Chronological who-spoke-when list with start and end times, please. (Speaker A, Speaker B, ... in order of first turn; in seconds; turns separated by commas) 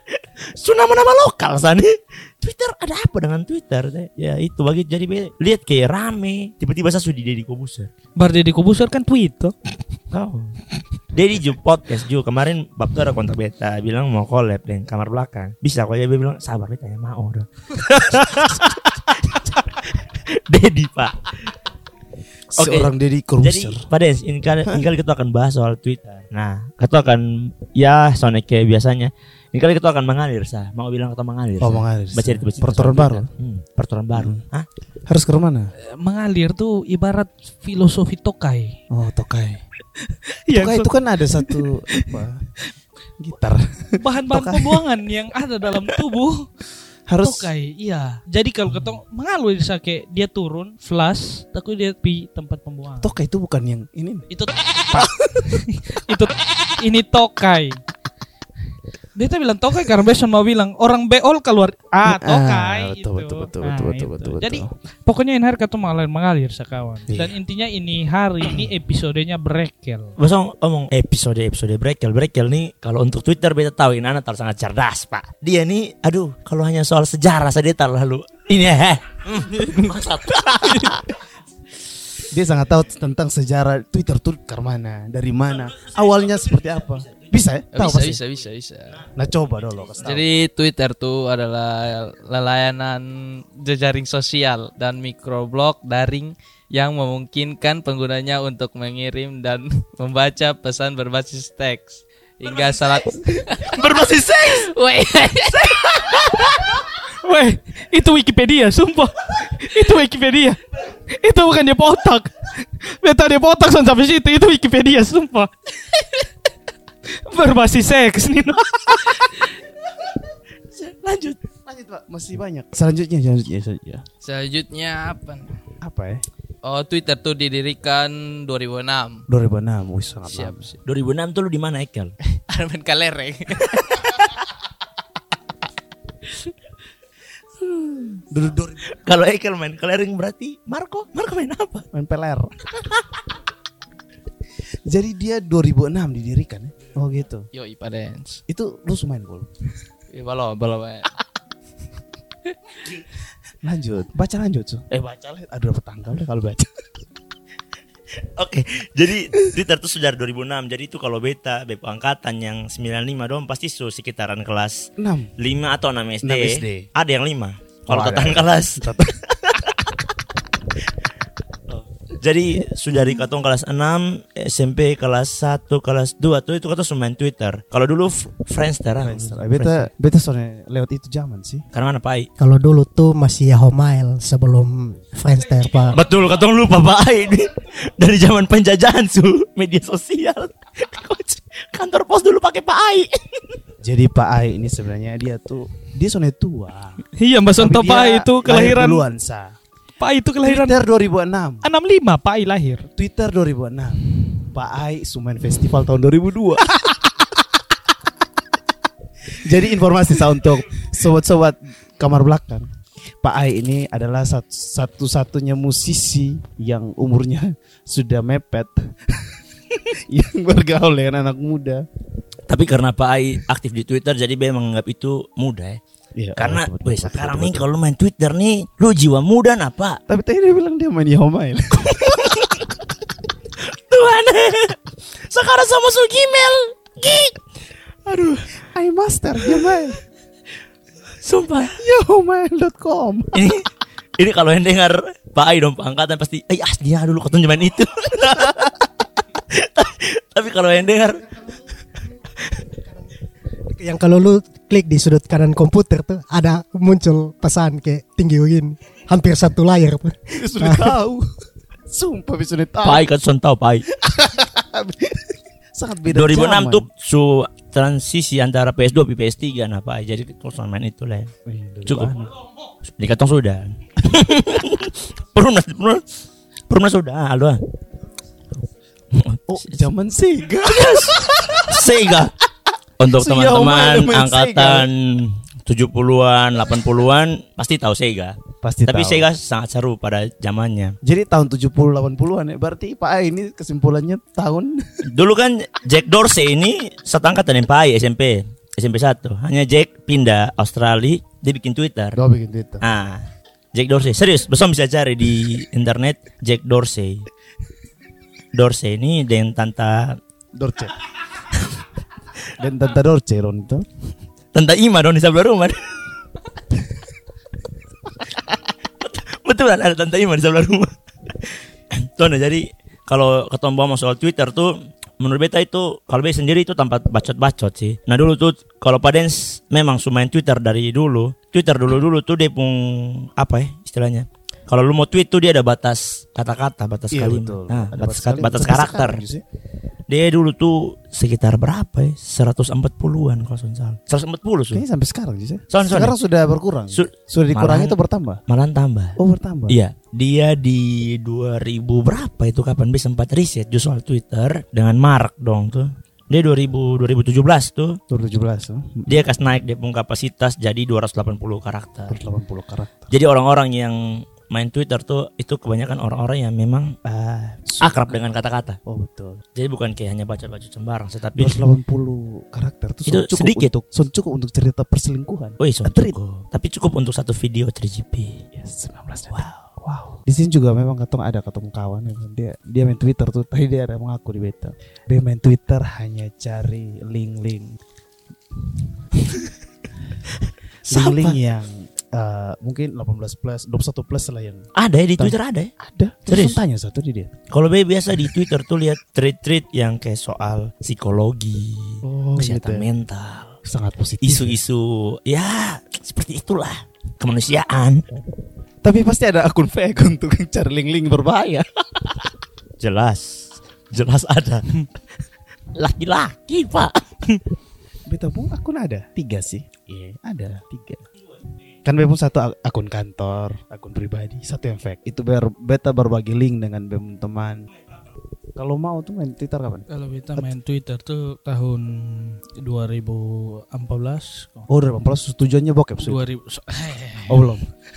Speaker A: 0.5-7.9, Speaker B: 8.2-9.5, Speaker A: 10.1-10.6, Speaker A: 11.1-21.5, Speaker C: 22.5-23.9, Speaker A: 22.6-22.9, Speaker A: 23.4-34.7, Speaker C: 31.6-33.3, Speaker C: 34.1-34.4, Speaker C: 35.1-35.7, Speaker B: 35.8-38.8, Speaker C: 38.9-39.6, Speaker B: 40.5-42.2, Speaker C: 40.5-42.5, Speaker C: 43.2-44.8, Speaker B: 44.0-46.5, Speaker C: 47.1-47.5, Speaker B: 47.2-53.1, Speaker C: 53.0-54.3, Speaker B: 54.3-57.8, Speaker C: 54.9-55.6, Speaker B: 59.1-70.1, Speaker C: 62.0-64.7, Speaker C: 67.1-67.3, Speaker A: 70.2-81.0, Speaker C: 80.5-81.0, Speaker C: 82.3-88.2, Speaker D: 87.7-89.0, Speaker C: 89.2-90.2, Speaker D: 90.0-106.5, Speaker A: 103.7-104.7, Speaker B: 107.0-115.5, Speaker B: 117.1-119.4, Speaker A: 120.8-121.4, Speaker C: 121.6-124.0, Speaker D: 124.2-125.6, Speaker C: 125.8-126.2, Speaker D: 126.6-129.2, Speaker C: 129.3-130.7, Speaker D: 130.3-130.8, Speaker A: 130.8-132.1, Speaker D: 132.3-134.0, Speaker C: 137.7-138.9, Speaker A: 138.9-141.9, Speaker C: 141.9-142.6, Speaker C: 144.9-147.5, Speaker D: 147.5-148.4, Speaker C: 148.5-149.5, Speaker D: 150.1-151.1, Speaker C: 153.6-156.7, Speaker A: 158.4-169.7, Speaker C: 165.0-165.3, Speaker C: 166.2-166.9, Speaker C: 167.9-169.1, Speaker A: 171.7-179.9, Speaker C: 178.9-181.6, Speaker A: 181.7-182.3, Speaker E: 182.4-186.0, Speaker A: 185.9-193.6, Speaker C: 193.8-197.0, Speaker B: 197.2-199.0, Speaker C: 197.6-199.5, Speaker B: 200.0-200.8, Speaker C: 200.4-201.7, Speaker B: 201.6-202.9, Speaker C: 202.9-206.7, Speaker C: 209.4-212.7, Speaker C: 213.2-221.8, Speaker A: 222.5-225.8, Speaker C: 226.2-227.7, Speaker A: 226.4-230.0, Speaker C: 230.1-232.6, Speaker A: 232.1-232.6, Speaker A: 233.6-237.4, Speaker A: 238.1-238.6, Speaker C: 238.6-240.0, Speaker A: 241.2-241.8, Speaker C: 241.7-243.4, Speaker A: 243.3-243.7, Speaker A: 244.2-248.7, Speaker A: 249.5-251.3, Speaker E: 253.7-260.9, Speaker C: 260.3-261.3, Speaker C: 261.9-263.1, Speaker A: 262.8-263.9, Speaker C: 264.0-266.9, Speaker A: 266.1-271.3, Speaker C: 271.4-272.3, Speaker A: 271.9-272.1, Speaker A: 272.9-276.0, Speaker A: 276.7-277.6, Speaker A: 279.1-279.8, Speaker C: 279.5-282.2, Speaker A: 280.6-282.3, Speaker A: 283.0-290.9, Speaker C: 283.1-284.9, Speaker C: 288.6-289.3, Speaker C: 291.0-294.8, Speaker A: 295.0-302.2, Speaker C: 302.1-302.8, Speaker A: 302.8-307.3, Speaker A: 308.5-310.2, Speaker C: 310.5-311.0, Speaker C: 312.6-313.9, Speaker A: 314.5-315.9, Speaker A: 319.0-339.2, Speaker C: 337.1-339.4, Speaker A: 340.1-344.8, Speaker C: 344.7-348.4, Speaker A: 345.7-346.1, Speaker A: 346.9-347.9, Speaker A: 348.5-358.0, Speaker C: 349.2-349.8, Speaker C: 358.1-359.1, Speaker A: 359.1-362.2, Speaker C: 362.1-363.1, Speaker A: 363.1-366.9, Speaker C: 367.0-368.2, Speaker A: 367.8-368.8, Speaker C: 368.8-369.4, Speaker A: 369.6-371.6, Speaker C: 371.4-376.1, Speaker A: 373.1-373.7, Speaker A: 375.6-378.4, Speaker C: 378.5-387.7, Speaker C: 390.8-397.3, Speaker A: 390.9-391.4, Speaker A: 394.8-395.7, Speaker A: 396.3-396.6, Speaker A: 397.5-403.6, Speaker C: 402.0-402.9, Speaker C: 403.6-404.6, Speaker A: 404.2-408.2, Speaker C: 408.8-411.7, Speaker A: 412.8-414.9, Speaker A: 415.7-417.4, Speaker C: 418.1-421.0, Speaker C: 421.8-427.6, Speaker C: 428.6-430.5, Speaker B: 429.9-434.7, Speaker C: 434.7-436.2, Speaker B: 436.0-437.5, Speaker C: 437.3-437.7